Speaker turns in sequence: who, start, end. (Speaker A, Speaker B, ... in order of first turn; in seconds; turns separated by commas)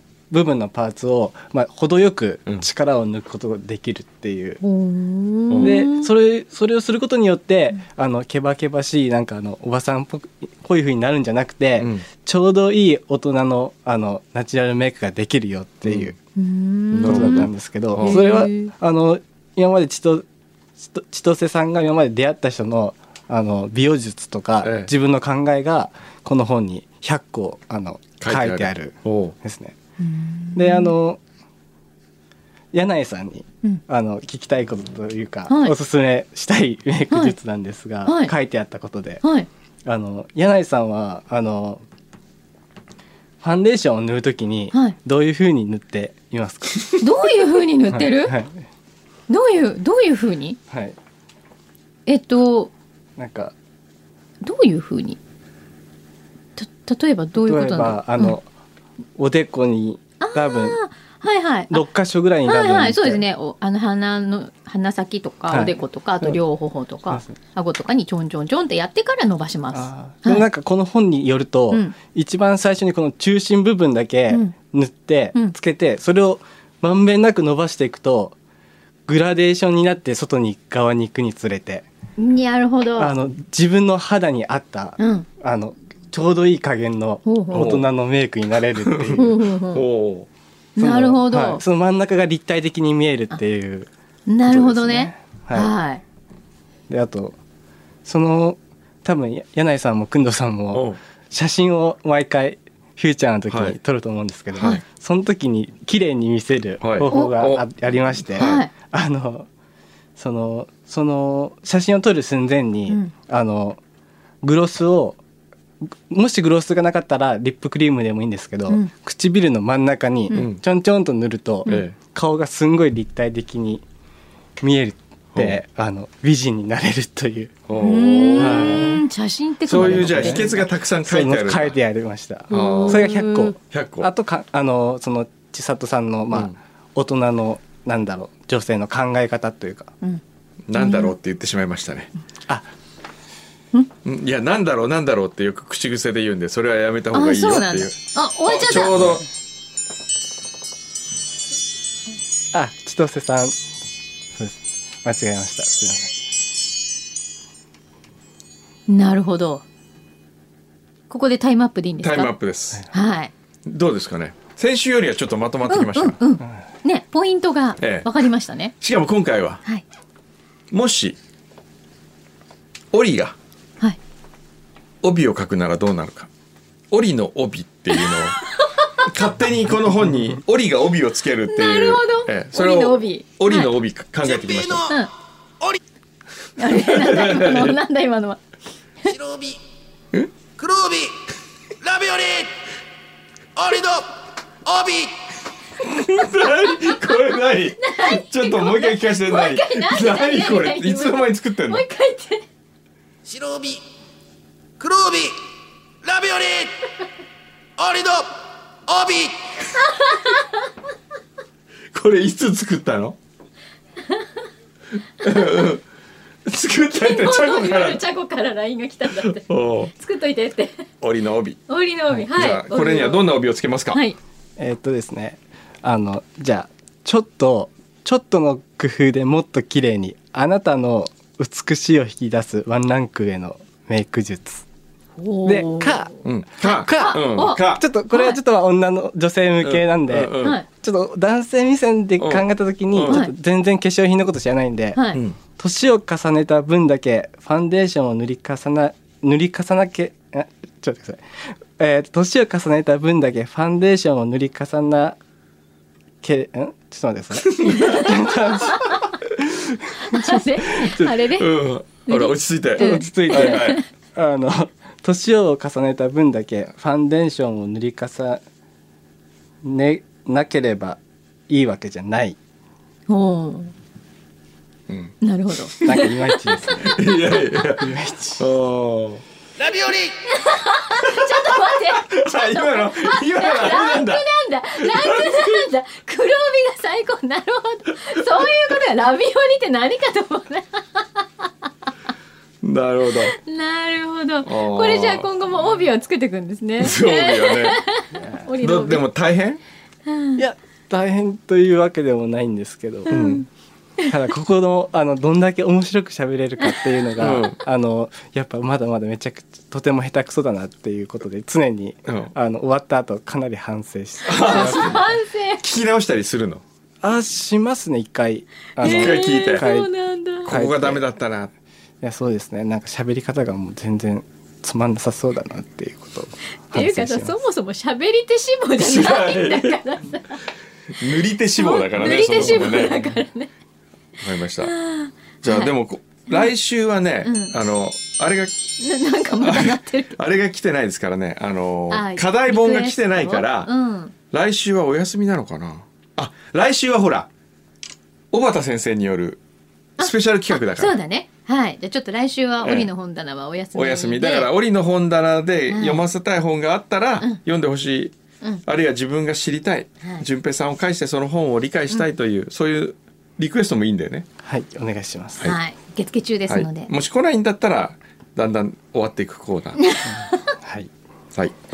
Speaker A: 0.3-4.6, Speaker B: 4.6-6.1, Speaker C: 5.5-5.8, Speaker A: 5.6-16.1, Speaker C: 11.8-12.0, Speaker C: 15.8-16.1, Speaker B: 16.4-18.7, Speaker C: 16.9-18.2, Speaker A: 17.0-20.2, Speaker A: 20.8-29.8, Speaker C: 24.6-24.9, Speaker C: 28.2-29.3, Speaker B: 30.0-30.9, Speaker A: 30.5-31.2, Speaker A: 32.7-39.2, Speaker B: 35.5-35.7, Speaker B: 37.1-37.4, Speaker B: 38.0-38.3, Speaker B: 39.2-39.5, Speaker A: 39.8-41.8, Speaker A: 43.4-46.9, Speaker B: 47.0-48.4, Speaker A: 47.9-48.6, Speaker B: 49.3-50.6, Speaker A: 50.7-51.0, Speaker B: 52.0-52.7, Speaker A: 53.2-53.5, Speaker B: 54.4-55.2, Speaker B: 56.6-58.4, Speaker A: 57.4-58.5, Speaker A: 59.1-60.8, Speaker B: 60.2-61.8, Speaker A: 61.7-63.2, Speaker B: 62.4-70.5, Speaker A: 65.5-66.4, Speaker A: 69.7-78.3, Speaker A: 79.1-81.8, Speaker B: 82.2-83.1, Speaker A: 83.0-89.4, Speaker B: 85.0-85.3, Speaker B: 87.2-87.8, Speaker C: 87.5-87.8, Speaker C: 88.8-90.3, Speaker B: 89.1-89.8, Speaker B: 90.8-91.6, Speaker A: 90.8-93.9, Speaker B: 94.3-96.0, Speaker A: 94.4-95.7, Speaker A: 96.9-97.4, Speaker A: 98.0-109.5, Speaker C: 100.7-101.0, Speaker C: 103.5-103.8, Speaker C: 106.8-107.6, Speaker B: 107.1-107.3, Speaker C: 108.2-108.6, Speaker B: 108.4-108.7, Speaker A: 110.2-113.8, Speaker A: 114.4-115.2, Speaker A: 116.1-123.8, Speaker C: 120.3-120.6, Speaker C: 121.7-122.0, Speaker A: 124.6-127.6, Speaker C: 127.7-128.9, Speaker B: 127.8-130.7, Speaker A: 128.4-129.0, Speaker C: 129.7-131.8, Speaker A: 129.7-139.9, Speaker B: 132.5-133.5, Speaker C: 132.5-134.1, Speaker C: 140.7-142.1, Speaker B: 140.7-141.1, Speaker C: 144.0-149.2, Speaker B: 147.1-149.2, Speaker A: 152.5-153.6, Speaker A: 154.3-156.1, Speaker B: 158.9-159.6, Speaker B: 161.1-162.3, Speaker C: 162.0-162.8, Speaker B: 162.9-163.3, Speaker C: 163.7-166.2, Speaker B: 165.7-168.7, Speaker C: 167.8-168.1, Speaker C: 168.8-169.6, Speaker C: 170.7-171.2, Speaker C: 172.9-173.3, Speaker C: 175.0-176.3, Speaker C: 176.9-178.4, Speaker B: 177.9-178.6, Speaker C: 179.0-184.9, Speaker B: 181.5-183.7, Speaker D: 184.2-185.0, Speaker B: 186.6-188.4, Speaker C: 186.7-187.8, Speaker D: 189.0-189.6, Speaker D: 190.6-191.2, Speaker D: 191.8-192.5, Speaker D: 193.6-195.2, Speaker C: 195.8-201.8, Speaker B: 197.8-202.4, Speaker D: 203.2-203.8, Speaker D: 204.8-205.3, Speaker D: 206.0-206.9, Speaker D: 207.8-209.6, Speaker B: 209.8-210.6, Speaker C: 211.9-213.2, Speaker C: 215.2-215.8, Speaker C: 216.4-218.0, Speaker B: 217.0-220.9, Speaker C: 219.2-219.9, Speaker C: 221.0-221.6, Speaker B: 221.7-223.3, Speaker C: 222.2-224.0, Speaker B: 223.9-224.2, Speaker A: 224.6-234.6, Speaker B: 235.2-238.4, Speaker A: 235.4-245.0, Speaker C: 236.2-237.8, Speaker C: 239.6-240.6, Speaker B: 240.4-240.7, Speaker C: 242.2-243.2, Speaker B: 243.0-243.3, Speaker B: 244.9-245.2, Speaker A: 245.6-255.2, Speaker A: 256.2-259.0, Speaker C: 257.4-258.1, Speaker B: 257.7-259.0, Speaker B: 260.1-261.5, Speaker C: 261.1-263.8, Speaker B: 262.1-263.8, Speaker A: 262.8-268.4, Speaker A: 269.6-272.4, Speaker B: 273.1-273.7, Speaker C: 274.9-275.1, Speaker B: 275.2-276.7, Speaker C: 275.7-276.0, Speaker A: 275.8-278.4, Speaker C: 276.8-279.2, Speaker D: 279.6-280.2, Speaker B: 280.3-291.5, Speaker C: 281.1-284.2, Speaker C: 284.8-285.7, Speaker C: 292.6-293.4, Speaker B: 293.3-299.0, Speaker C: 294.4-295.3, Speaker C: 296.8-297.8, Speaker A: 298.1-298.5, Speaker C: 298.6-299.6, Speaker B: 300.1-300.4, Speaker A: 300.4-303.2, Speaker C: 303.1-303.4, Speaker B: 303.1-303.4, Speaker A: 304.1-315.1, Speaker C: 307.2-307.6, Speaker C: 312.1-312.3, Speaker C: 314.2-315.0, Speaker B: 314.4-315.6, Speaker C: 315.6-316.6, Speaker A: 317.0-319.9, Speaker B: 318.8-320.5, Speaker C: 318.8-319.7, Speaker C: 320.4-321.5, Speaker A: 320.4-321.1, Speaker A: 322.0-327.3, Speaker B: 326.7-330.4, Speaker C: 328.8-329.8, Speaker C: 331.0-333.0, Speaker B: 331.6-333.5, Speaker C: 334.2-334.7, Speaker B: 334.6-335.7, Speaker C: 335.4-338.6, Speaker B: 336.3-336.5, Speaker B: 337.2-337.5, Speaker B: 338.8-340.1, Speaker C: 339.4-343.7, Speaker B: 341.9-344.1, Speaker C: 344.3-347.3, Speaker C: 348.3-349.4, Speaker C: 350.0-350.9, Speaker B: 350.0-354.5, Speaker C: 352.6-352.9, Speaker C: 353.7-358.1, Speaker B: 355.7-356.0, Speaker C: 358.6-364.3, Speaker A: 364.4-365.5, Speaker B: 365.4-366.9, Speaker C: 366.5-369.8, Speaker B: 369.8-370.5, Speaker A: 370.1-370.9